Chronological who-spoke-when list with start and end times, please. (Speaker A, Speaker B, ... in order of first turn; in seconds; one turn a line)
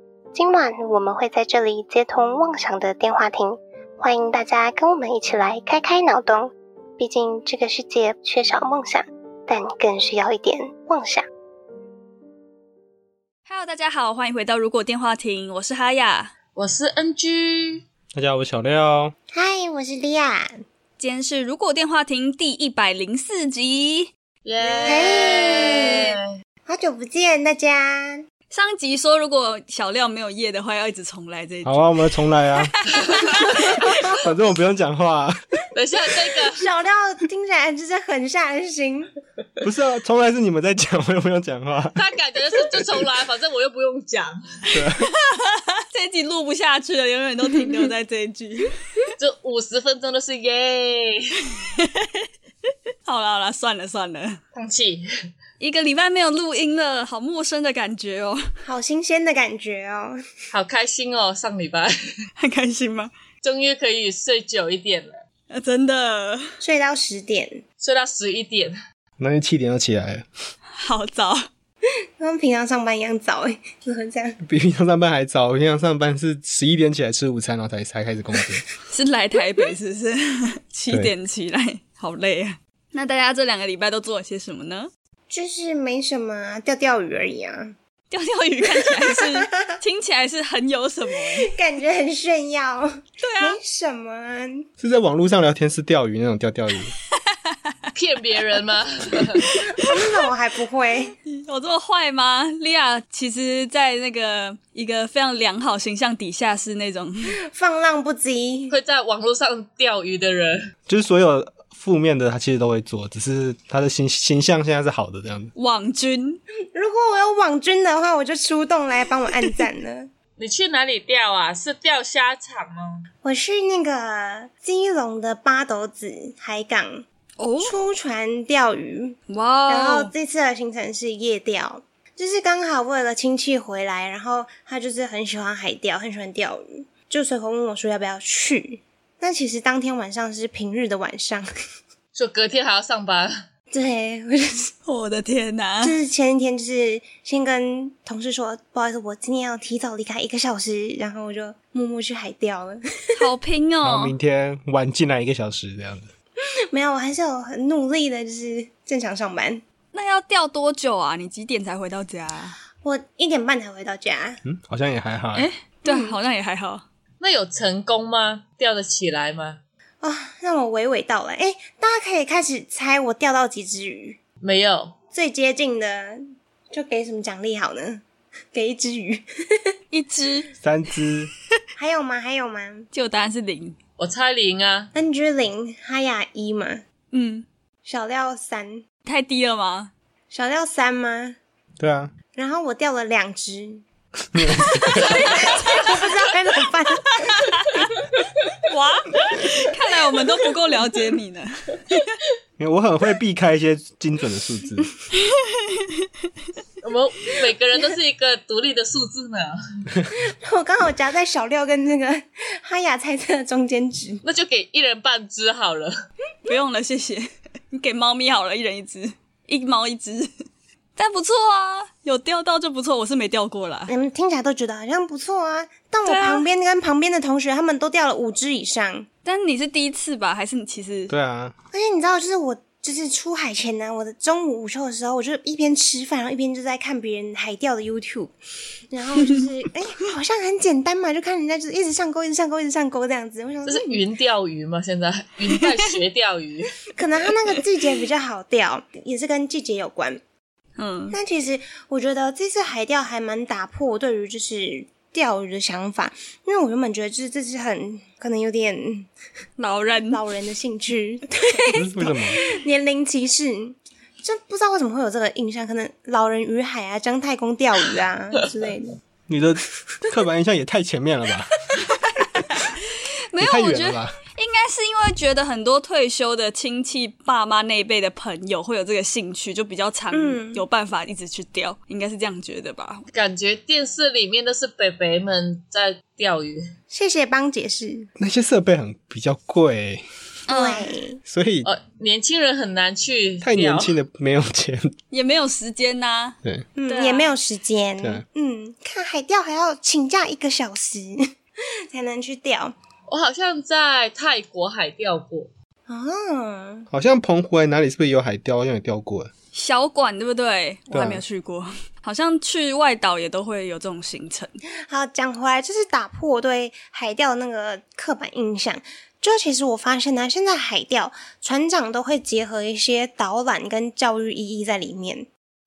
Speaker A: 0.3-11.2
Speaker B: 13.5-16.3
Speaker C: 16.6-17.8
Speaker D: 18.1-19.1
Speaker E: 19.3-20.5
Speaker B: 21.0-24.1
Speaker C: 24.4-26.2
Speaker E: 24.6-28.2
Speaker B: 28.5-31.8
Speaker D: 31.6-32.8
Speaker B: 32.7-33.8
Speaker E: 33.3-33.7
Speaker D: 34.2-35.4
Speaker C: 35.8-36.7
Speaker E: 36.5-39.1
Speaker D: 39.6-42.1
Speaker C: 42.0-44.4
Speaker D: 44.7-45.1
Speaker B: 45.0-48.7
Speaker C: 49.2-51.4
Speaker B: 51.8-52.2
Speaker B: 53.0-54.4
Speaker C: 54.5-55.0
Speaker B: 55.6-58.4
Speaker E: 58.6-60.2
Speaker C: 60.5-61.9
Speaker B: 62.4-63.1
Speaker C: 63.4-65.2
Speaker B: 65.5-66.5
Speaker E: 66.6-67.6
Speaker C: 67.8-68.8
Speaker D: 69.2-70.3
Speaker B: 70.8-71.5
Speaker E: 72.2-74.4
Speaker D: 74.5-78.7
Speaker B: 78.9-84.9
Speaker E: 85.3-87.7
Speaker B: 88.1-91.5
Speaker E: 88.8-89.8
Speaker E: 91.3-94.7
Speaker B: 93.2-93.6
Speaker D: 94.8-96.9
Speaker C: 97.9-99.5
Speaker E: 99.6-101.2
Speaker B: 101.3-107.3
Speaker E: 107.5-108.8
Speaker C: 108.7-110.6
Speaker D: 110.9-115.5
Speaker B: 115.5-116.4
Speaker E: 116.7-120.1
Speaker C: 120.4-123.1
Speaker E: 123.2-127.0
Speaker B: 127.4-127.8
Speaker E: 127.6-141.5
Speaker B: 129.3-130.1
Speaker C: 142.2-143.4
Speaker E: 143.7-144.7
Speaker B: 144.9-146.0
Speaker E: 145.8-152.8
Speaker B: 153.2-154.2
Speaker D: 153.8-156.1
Speaker E: 156.7-159.6
Speaker B: 159.9-162.6
Speaker E: 162.8-164.4
Speaker D: 164.4-165.5
Speaker B: 165.3-166.8
Speaker E: 165.9-166.2
Speaker C: 167.2-169.6
Speaker E: 170.0-174.2
Speaker C: 174.4-175.0
Speaker E: 175.1-179.7
Speaker B: 179.9-180.5
Speaker D: 180.6-181.3
Speaker E: 181.8-182.9
Speaker B: 182.9-183.8
Speaker C: 184.0-184.9
Speaker E: 184.9-186.8
Speaker B: 187.1-187.5
Speaker E: 187.8-188.8
Speaker B: 189.1-189.9
Speaker E: 190.3-191.4
Speaker D: 191.8-192.1
Speaker E: 192.3-193.8
Speaker D: 194.3-195.3
Speaker B: 194.7-196.1
Speaker E: 194.7-197.4
Speaker B: 197.2-197.9
Speaker B: 198.6-202.0
Speaker D: 202.6-204.9
Speaker C: 206.8-209.6
Speaker E: 210.1-214.2
Speaker C: 214.2-215.9
Speaker B: 216.5-220.3
Speaker B: 221.0-223.9
Speaker E: 223.9-229.1
Speaker B: 226.1-226.4
Speaker B: 229.2-231.1
Speaker D: 231.1-231.5
Speaker E: 231.7-238.3
Speaker E: 238.9-244.0
Speaker C: 243.7-246.7
Speaker E: 247.0-250.2
Speaker B: 250.8-251.2
Speaker E: 251.1-259.1
Speaker B: 259.6-260.2
Speaker E: 260.1-269.0
Speaker D: 261.7-262.4
Speaker D: 269.3-271.6
Speaker B: 272.2-272.8
Speaker B: 273.3-283.1
Speaker D: 273.4-274.2
Speaker E: 280.1-280.6
Speaker C: 283.1-286.6
Speaker E: 286.9-288.1
Speaker D: 288.2-290.0
Speaker B: 290.5-290.9
Speaker E: 290.5-291.2
Speaker D: 291.3-291.7
Speaker C: 291.6-293.9
Speaker D: 293.4-294.9
Speaker B: 295.1-297.3
Speaker E: 296.8-301.3
Speaker D: 298.0-298.2
Speaker E: 301.9-302.8
Speaker C: 303.1-305.5
Speaker E: 305.9-306.9
Speaker D: 306.9-309.3
Speaker B: 309.5-314.6
Speaker D: 310.9-311.2
Speaker E: 314.9-325.3